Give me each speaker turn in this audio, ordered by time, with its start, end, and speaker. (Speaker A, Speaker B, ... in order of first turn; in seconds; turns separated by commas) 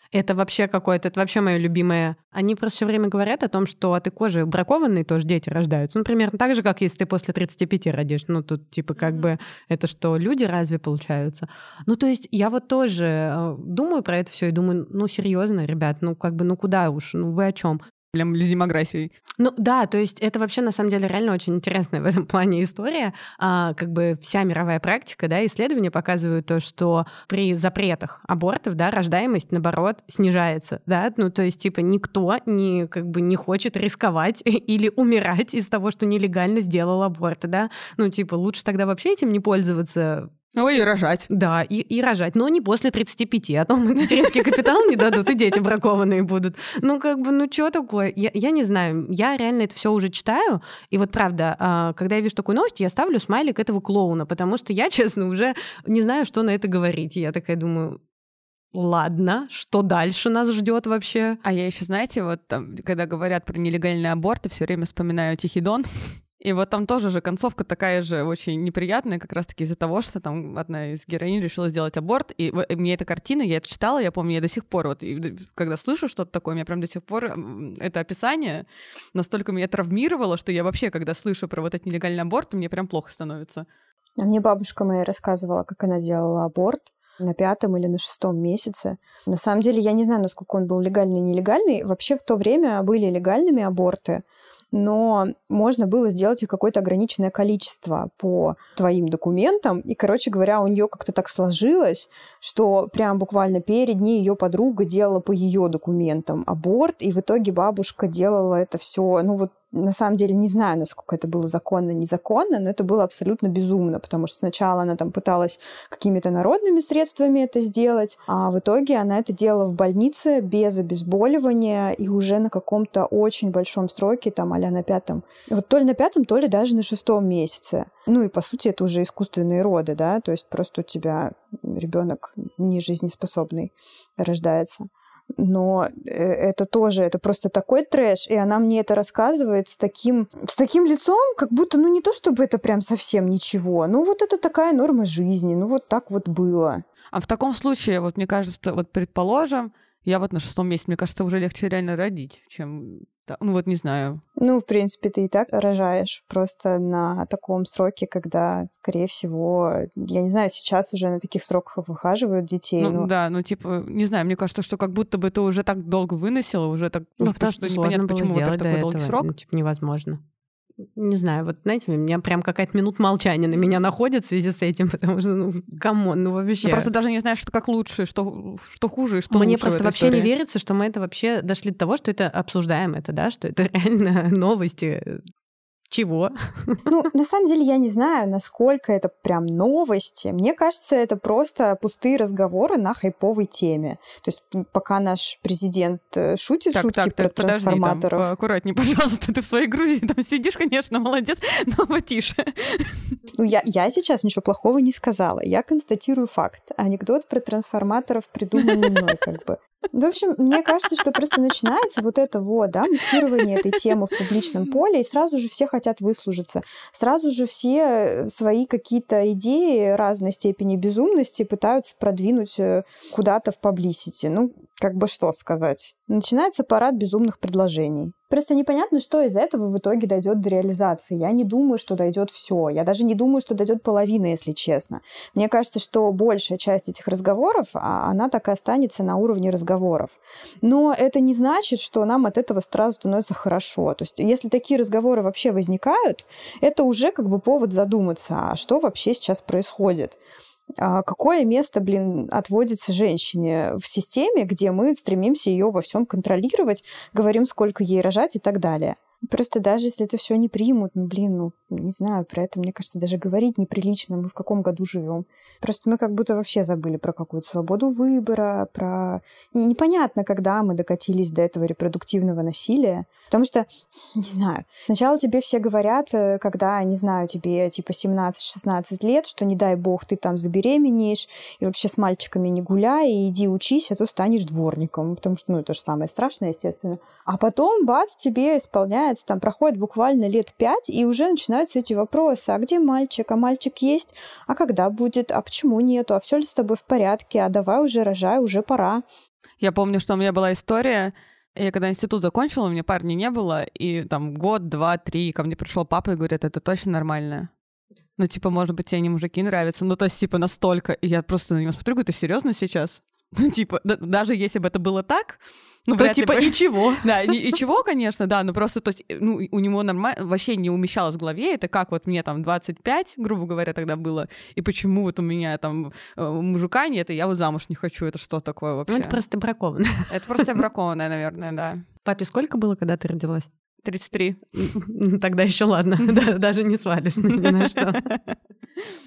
Speaker A: 0.1-17.8, Speaker B: 18.1-19.1, Speaker A: 19.4-40.3, Speaker B: 40.5-41.3, Speaker A: 41.3-58.0, Speaker A: 58.7-61.4, Speaker B: 61.4-83.7, Speaker C: 84.2-146.8, Speaker B: 147.1-154.2, Speaker C: 154.4-163.1, Speaker B: 162.8-169.3, Speaker A: 167.2-170.2, Speaker A: 170.9-176.9, Speaker B: 176.6-180.3, Speaker A: 179.3-185.2, Speaker A: 185.9-186.8, Speaker C: 186.9-198.3, Speaker B: 196.7-203.2, Speaker C: 203.3-250.2, Speaker C: 250.8-299.0, Speaker B: 299.6-307.5, Speaker B: 308.2-329.2, Speaker A: 316.0-317.1, Speaker A: 328.9-330.4, Speaker B: 330.1-331.8, Speaker A: 332.0-333.5, Speaker B: 333.8-334.4, Speaker A: 334.6-338.0, Speaker B: 337.3-338.3